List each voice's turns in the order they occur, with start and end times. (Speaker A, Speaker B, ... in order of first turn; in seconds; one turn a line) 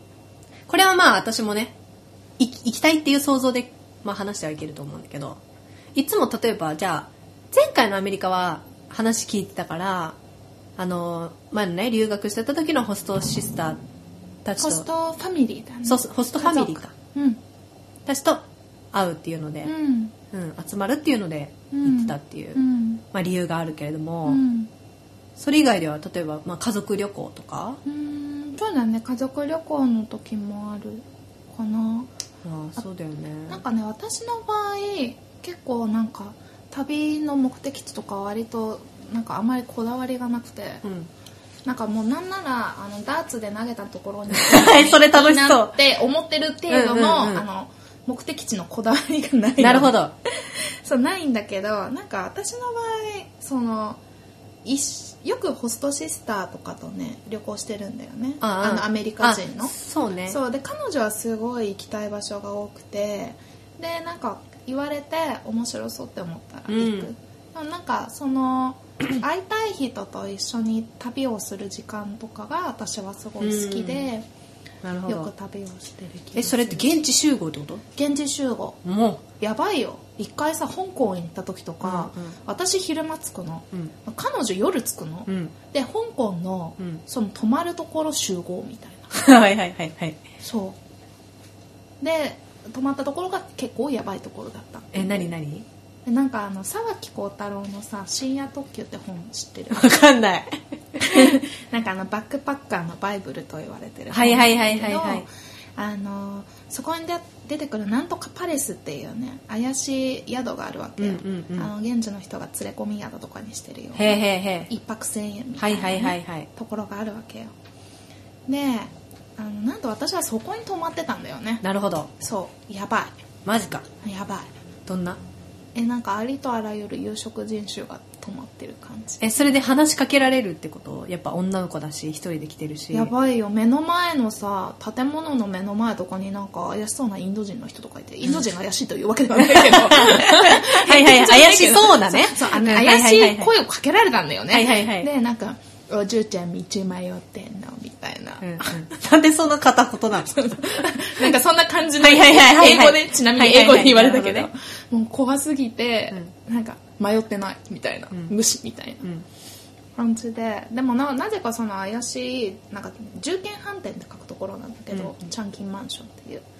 Speaker A: 0.7-1.7
Speaker A: 2.4-5.4
Speaker A: 5.9-10.2
Speaker A: 10.8-13.8
Speaker A: 14.4-14.8
Speaker B: 14.6-17.4
Speaker A: 15.8-16.9
Speaker A: 18.1-19.7
Speaker B: 19.6-20.1
Speaker A: 20.3-22.6
Speaker B: 21.7-23.0
Speaker A: 23.1-24.4
Speaker B: 24.2-24.7
Speaker A: 25.4-27.8
Speaker B: 27.8-32.1
Speaker A: 32.4-33.6
Speaker B: 33.5-40.8
Speaker A: 40.8-41.1
Speaker B: 41.6-54.0
Speaker A: 44.3-45.8
Speaker A: 46.7-47.4
Speaker A: 49.6-50.1
Speaker B: 54.6-59.7
Speaker A: 58.4-60.4
Speaker B: 60.3-74.2
Speaker A: 66.7-67.1
Speaker A: 73.4-74.1
Speaker A: 74.8-75.3
Speaker B: 75.0-77.0
Speaker A: 76.3-77.8
Speaker B: 77.9-78.8
Speaker A: 78.8-79.2
Speaker B: 79.4-89.1
Speaker A: 81.8-82.3
Speaker A: 85.3-85.5
Speaker A: 89.1-90.2
Speaker B: 90.4-90.8
Speaker B: 92.0-95.3
Speaker A: 94.9-95.7
Speaker B: 96.0-100.0
Speaker A: 99.7-101.4
Speaker B: 101.0-117.5
Speaker A: 104.1-105.2
Speaker A: 111.0-111.7
Speaker A: 113.9-114.7
Speaker A: 115.6-116.5
Speaker B: 118.5-121.6
Speaker A: 121.6-122.1
Speaker B: 122.2-123.1
Speaker A: 123.4-123.8
Speaker B: 124.0-124.5
Speaker A: 124.8-125.2
Speaker B: 125.7-129.2
Speaker A: 129.2-133.1
Speaker B: 132.9-148.9
Speaker A: 139.3-143.5
Speaker A: 144.5-145.1
Speaker A: 148.4-150.6
Speaker B: 150.3-159.1
Speaker A: 152.0-154.5
Speaker B: 159.9-166.4